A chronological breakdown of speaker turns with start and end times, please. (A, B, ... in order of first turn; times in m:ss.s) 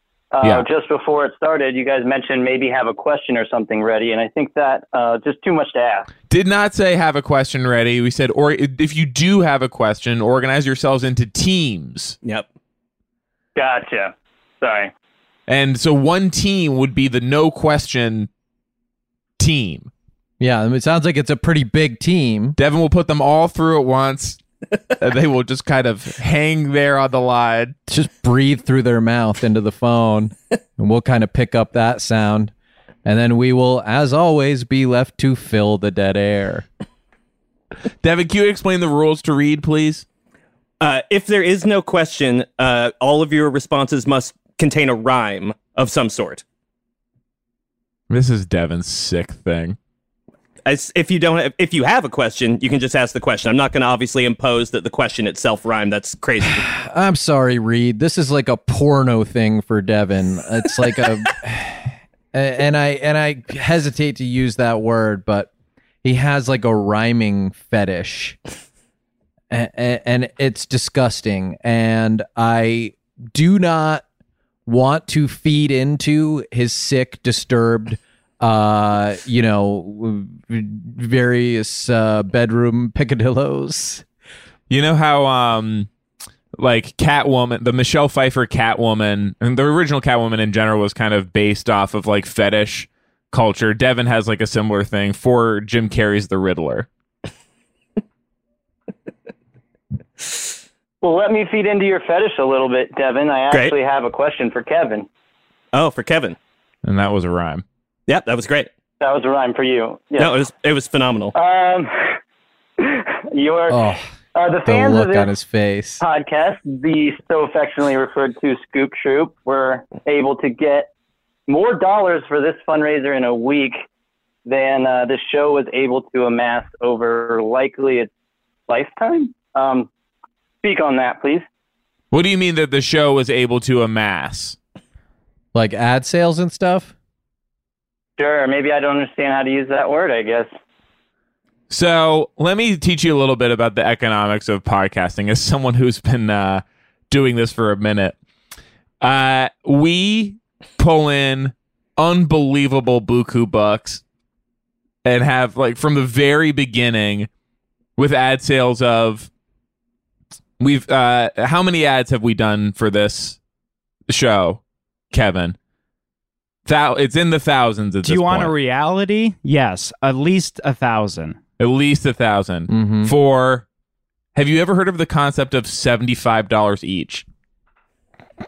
0:00.3-0:06.1 A
0:06.3-0:12.2 B
0:13.6-0:14.9 A
0:15.5-0:18.3 B
0:19.4-0:19.9 B
0:20.4-0:22.6 C
0:22.6-0:24.4 B
0:25.0-0:27.8 B
0:27.9-0:32.5 C
0:33.0-0:36.6 C
0:38.0-0:40.0 B
0:40.8-0:46.4 D
0:48.1-0:49.8 B
0:50.6-0:56.6 D
0:56.5-1:05.5 C
1:06.0-1:08.4 C
1:09.5-1:14.0 C
1:14.7-1:24.0 C
1:24.7-1:25.9 B
1:26.6-1:36.9 B
1:41.0-1:45.1 A
1:45.7-1:46.4 D
1:46.8-1:47.6 B
1:48.1-1:48.7 D
1:49.0-1:50.4 A
1:50.2-1:51.3 D
1:51.4-1:52.2 A
1:52.8-1:53.8 A
1:53.7-1:54.1 C
1:54.4-1:55.3 A
1:54.7-1:56.0 C
1:56.0-2:00.9 A
2:01.5-2:03.8 A
2:04.5-2:08.1 A
2:08.7-2:09.9 A
2:10.6-2:11.4 A
2:12.1-2:14.6 B
2:15.5-2:16.9 C
2:18.2-2:20.5 A
2:21.7-2:28.2 B
2:29.0-2:34.0 B
2:35.0-2:37.3 B
2:38.0-2:39.3 B
2:40.6-2:43.4 B
2:44.1-2:45.6 B
2:46.7-2:48.5 B
2:48.0-2:51.4 E
2:51.6-2:53.6 B
2:52.7-2:53.1 C
2:54.4-2:57.2 B